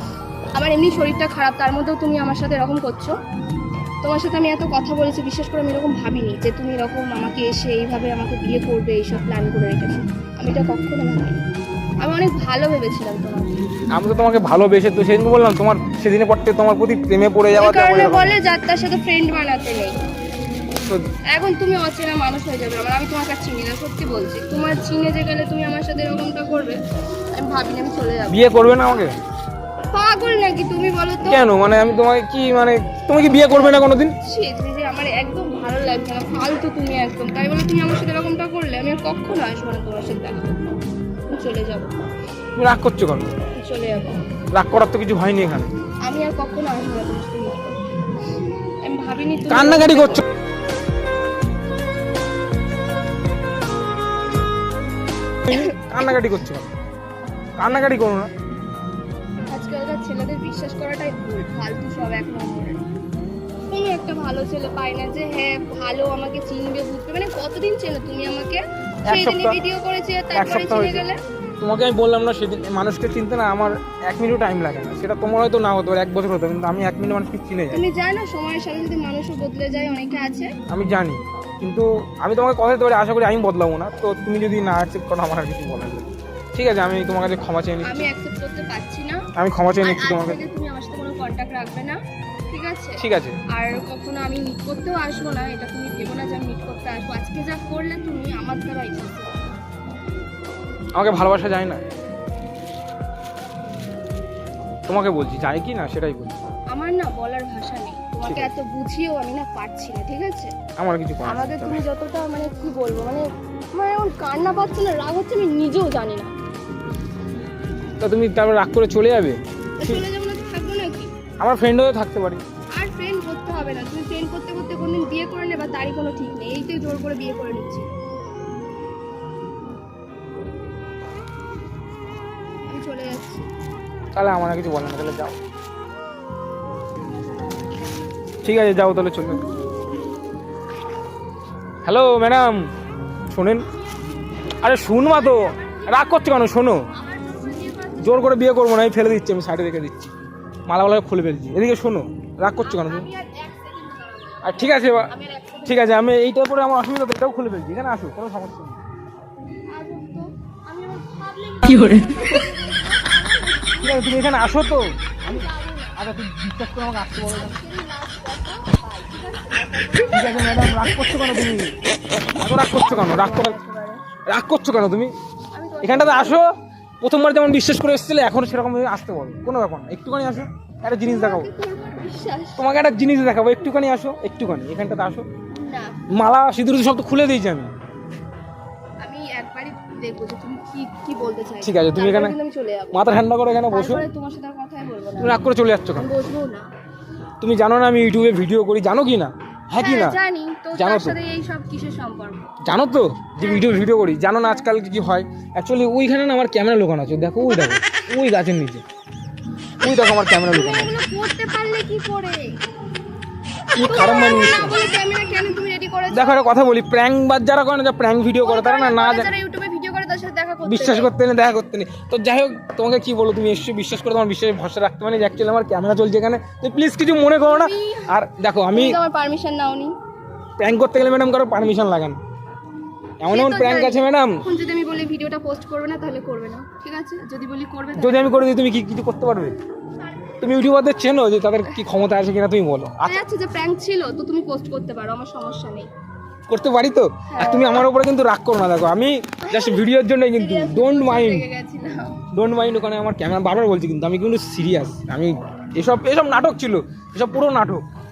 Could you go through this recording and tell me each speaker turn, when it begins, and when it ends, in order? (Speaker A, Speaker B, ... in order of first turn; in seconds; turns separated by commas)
Speaker A: 0.5-3.1, Speaker A: 4.0-11.4, Speaker A: 12.0-13.6, Speaker B: 13.9-18.4, Speaker A: 17.5-20.0, Speaker A: 21.3-26.8, Speaker A: 27.3-29.0, Speaker B: 28.3-29.1, Speaker A: 29.9-31.4, Speaker B: 31.3-34.1, Speaker A: 33.3-40.6, Speaker A: 41.3-41.9, Speaker B: 42.5-43.3, Speaker A: 43.6-44.2, Speaker B: 44.5-45.7, Speaker A: 46.0-47.8, Speaker A: 48.8-50.2, Speaker B: 49.5-50.2, Speaker B: 55.5-56.7, Speaker A: 55.5-55.7, Speaker B: 57.6-58.3, Speaker A: 59.5-62.8, Speaker A: 63.7-71.2, Speaker B: 69.0-69.6, Speaker B: 70.3-71.0, Speaker B: 71.6-77.8, Speaker A: 77.7-80.5, Speaker B: 80.7-88.1, Speaker A: 87.8-89.2, Speaker B: 89.3-90.4, Speaker A: 89.8-92.0, Speaker A: 92.5-99.4, Speaker B: 93.0-93.4, Speaker B: 101.0-101.8, Speaker B: 104.9-106.3, Speaker A: 106.7-110.5, Speaker B: 108.2-108.5, Speaker B: 110.8-111.8, Speaker A: 111.2-116.3, Speaker B: 118.0-120.0, Speaker A: 119.8-121.1, Speaker B: 121.4-122.4, Speaker A: 122.7-127.9, Speaker A: 132.7-133.5, Speaker B: 134.1-135.4, Speaker A: 137.3-137.7, Speaker B: 138.4-139.4, Speaker B: 141.8-142.7, Speaker B: 143.3-143.6, Speaker B: 144.6-146.8, Speaker A: 144.8-146.4, Speaker A: 146.9-148.5, Speaker B: 148.0-150.1, Speaker B: 150.7-153.1, Speaker A: 152.6-156.0, Speaker B: 154.4-155.1, Speaker B: 155.6-158.8, Speaker A: 159.7-166.0, Speaker B: 163.8-167.6, Speaker A: 167.3-171.0, Speaker B: 170.1-171.7, Speaker B: 172.3-173.6, Speaker A: 172.9-174.0, Speaker B: 174.3-175.1, Speaker A: 175.5-176.4, Speaker B: 175.8-181.5, Speaker A: 181.0-182.6, Speaker B: 182.6-185.2, Speaker A: 185.5-185.9, Speaker B: 186.1-187.7, Speaker A: 189.0-193.0, Speaker B: 191.6-192.3, Speaker B: 192.9-194.1, Speaker A: 193.7-195.4, Speaker B: 195.2-196.1, Speaker A: 195.9-196.6, Speaker B: 197.4-200.2, Speaker A: 199.8-202.5, Speaker B: 200.7-201.2, Speaker B: 202.6-208.8, Speaker A: 203.4-203.8, Speaker B: 209.8-210.9, Speaker A: 210.5-212.5, Speaker B: 213.7-214.9, Speaker A: 213.8-216.5, Speaker B: 216.1-219.3, Speaker A: 218.4-221.1, Speaker B: 220.6-229.0, Speaker A: 227.4-228.1, Speaker A: 228.7-229.9, Speaker B: 230.6-232.2, Speaker B: 233.2-234.4, Speaker A: 233.3-238.4, Speaker B: 238.0-239.5, Speaker A: 240.0-240.4, Speaker B: 240.4-243.2, Speaker A: 243.0-245.9, Speaker B: 246.5-251.4, Speaker A: 247.3-247.9, Speaker A: 249.4-252.2, Speaker B: 252.3-257.8